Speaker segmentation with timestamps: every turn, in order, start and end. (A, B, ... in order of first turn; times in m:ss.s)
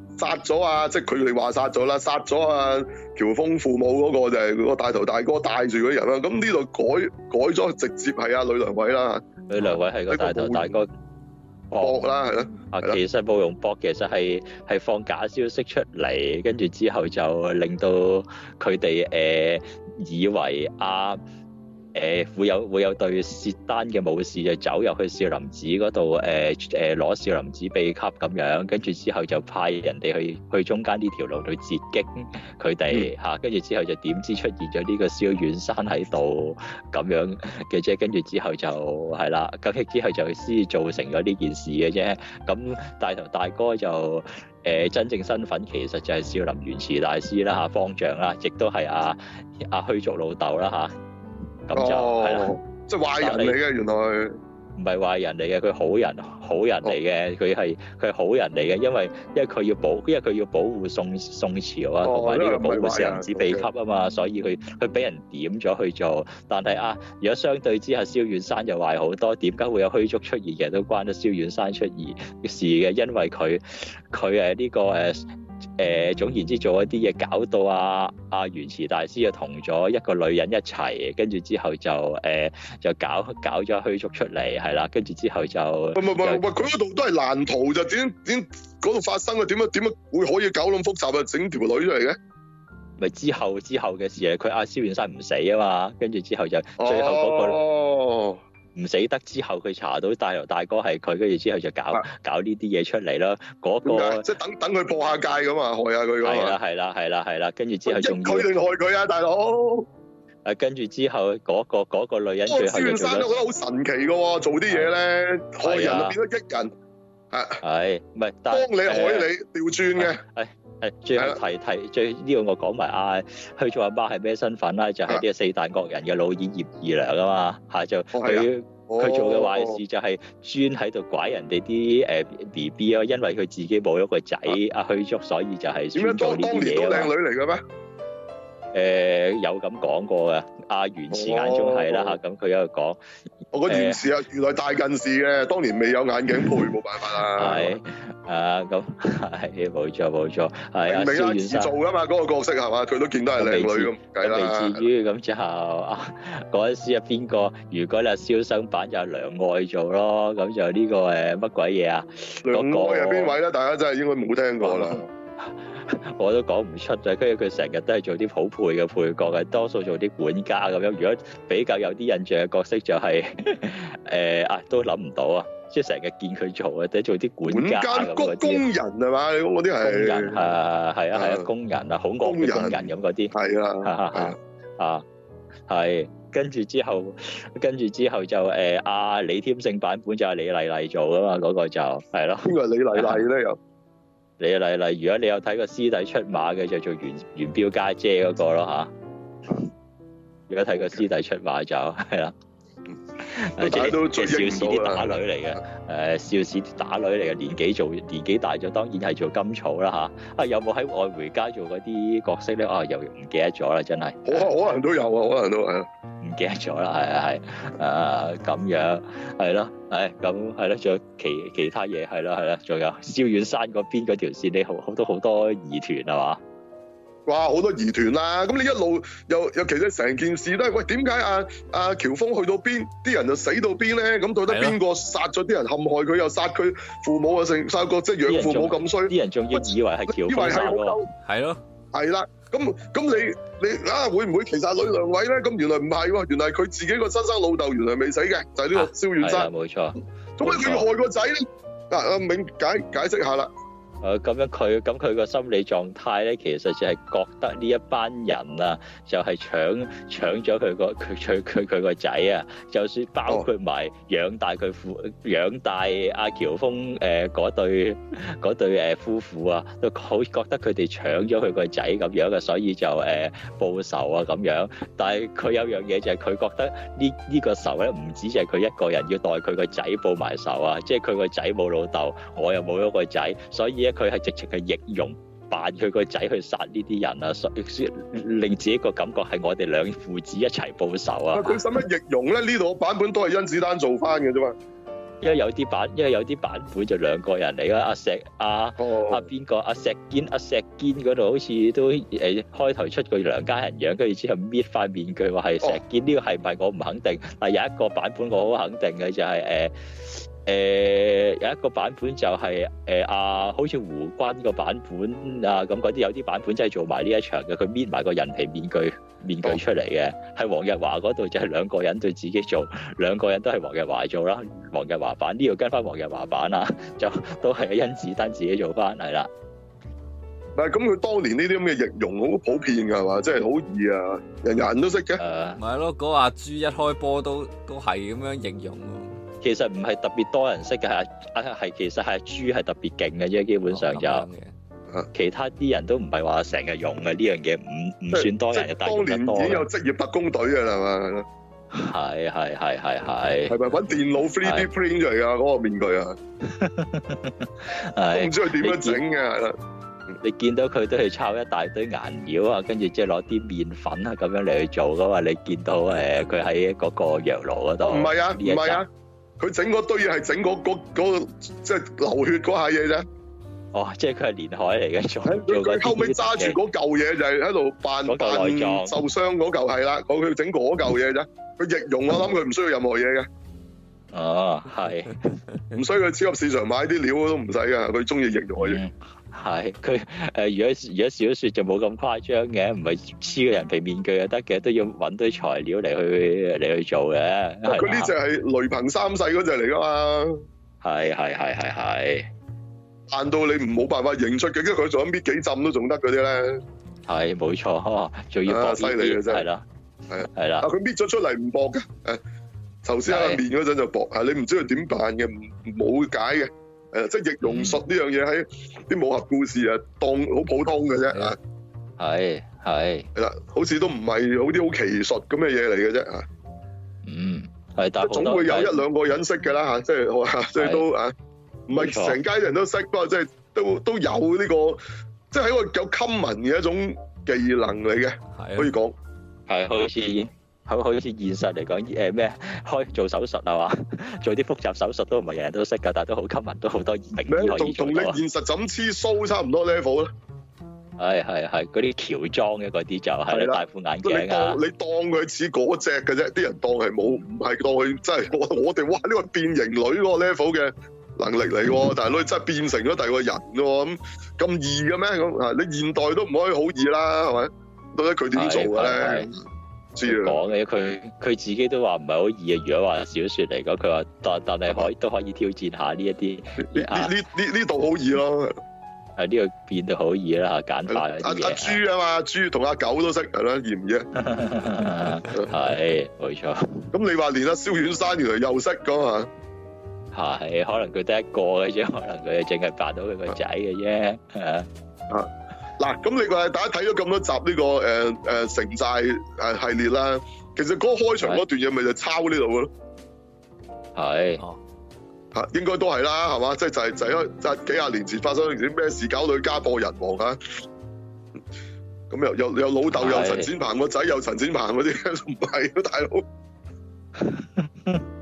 0:00.2-0:09.3 A
0:09.5-0:10.9 B
0:10.1-0:10.8 A
0:11.7-0:12.1 B
0:11.8-0:13.0 A
0:12.7-0:21.2 B
0:21.9-0:50.9 B
0:51.7-0:52.6 B
0:51.7-0:54.4 A
0:53.2-0:53.6 B
0:54.8-1:26.7 B
1:02.0-1:03.7 A
1:26.0-1:32.2 A
1:33.0-1:37.6 B
1:36.8-1:38.4 A
1:38.8-1:44.3 B
1:43.8-1:46.6 A
1:46.2-1:48.5 B
1:47.9-1:49.9 A
1:50.4-1:53.4 B
1:52.5-1:56.7 A
1:55.6-1:56.2 B
1:57.3-1:57.6 A
1:57.6-1:59.3 B
1:58.5-2:00.2 A
2:00.0-2:17.1 B
2:08.1-2:09.8 A
2:16.0-2:17.6 A
2:18.7-2:23.0 B
2:21.1-2:22.2 A
2:23.5-2:27.8 A
2:23.7-2:24.1 B
2:27.3-2:31.7 B
2:30.9-2:34.8 A
2:33.4-2:43.4 B
2:42.5-2:45.1 A
2:44.6-2:58.6 B
2:57.5-3:00.4 A
2:59.8-3:05.0 B
3:01.2-3:01.5 A
3:02.2-3:04.4 A
3:05.7-3:13.3 B
3:12.4-3:13.6 A
3:14.4-3:18.9 B
3:20.5-3:22.3 B
3:20.8-3:21.0 A
3:23.2-3:34.5 B
3:23.6-3:25.2 A
3:34.3-3:35.9 A
3:36.2-3:46.4 B
3:47.3-4:01.1 A
3:54.5-3:54.8 C
3:58.3-4:01.0 B
4:01.2-4:01.6 C
4:01.9-4:09.5 A
4:08.8-4:10.9 B
4:10.4-4:13.5 A
4:14.0-4:51.6 B
4:51.3-4:54.6 A
4:55.2-5:29.3 B
4:58.8-4:59.3 A
5:30.6-5:35.2 A
5:35.2-5:35.6 B
5:35.6-5:39.2 C
5:39.4-5:44.3 B
5:43.7-5:44.5 C
5:45.1-5:49.7 B
5:48.1-5:51.3 A
5:51.7-5:53.6 B
5:53.5-5:56.2 A
5:54.4-5:54.7 B
5:56.4-5:59.0 B
5:58.1-5:59.6 A
6:00.2-6:08.8 B
6:07.8-6:08.9 A
6:09.4-6:13.0 A
6:13.7-6:16.6 B
6:15.2-6:23.3 A
6:18.1-6:19.0 B
6:24.1-6:25.4 B
6:25.7-6:28.8 A
6:28.6-6:38.1 B
6:37.7-6:40.4 A
6:40.8-6:42.3 B
6:43.1-6:46.6 A
6:47.1-6:49.6 B
6:48.5-6:49.5 A
6:50.1-6:52.2 A
6:50.2-6:50.7 B
6:52.8-7:01.4 A
6:53.0-6:53.4 B
6:57.4-6:57.8 B
7:02.0-7:03.1 B
7:03.2-7:06.3 A
7:07.1-7:08.8 B
7:08.0-7:11.1 A
7:10.6-7:10.8 B
7:11.7-7:19.0 A
7:11.7-7:12.2 B
7:18.4-7:18.7 C
7:19.5-7:28.2 B
7:27.3-7:30.1 A
7:31.0-7:34.6 B
7:33.3-7:49.4 A
7:48.3-7:49.3 B
7:50.0-7:50.4 A
7:50.0-7:57.1 B
7:56.6-7:58.6 A
7:59.2-8:01.8 B
8:00.9-8:04.1 A
8:04.2-8:06.9 B
8:06.9-8:09.3 A
8:10.1-8:14.7 B
8:15.1-8:22.7 A
8:24.0-8:24.4 B
8:25.3-8:30.6 A
8:32.1-8:36.2 A
8:32.9-8:33.5 B
8:37.2-8:38.0 B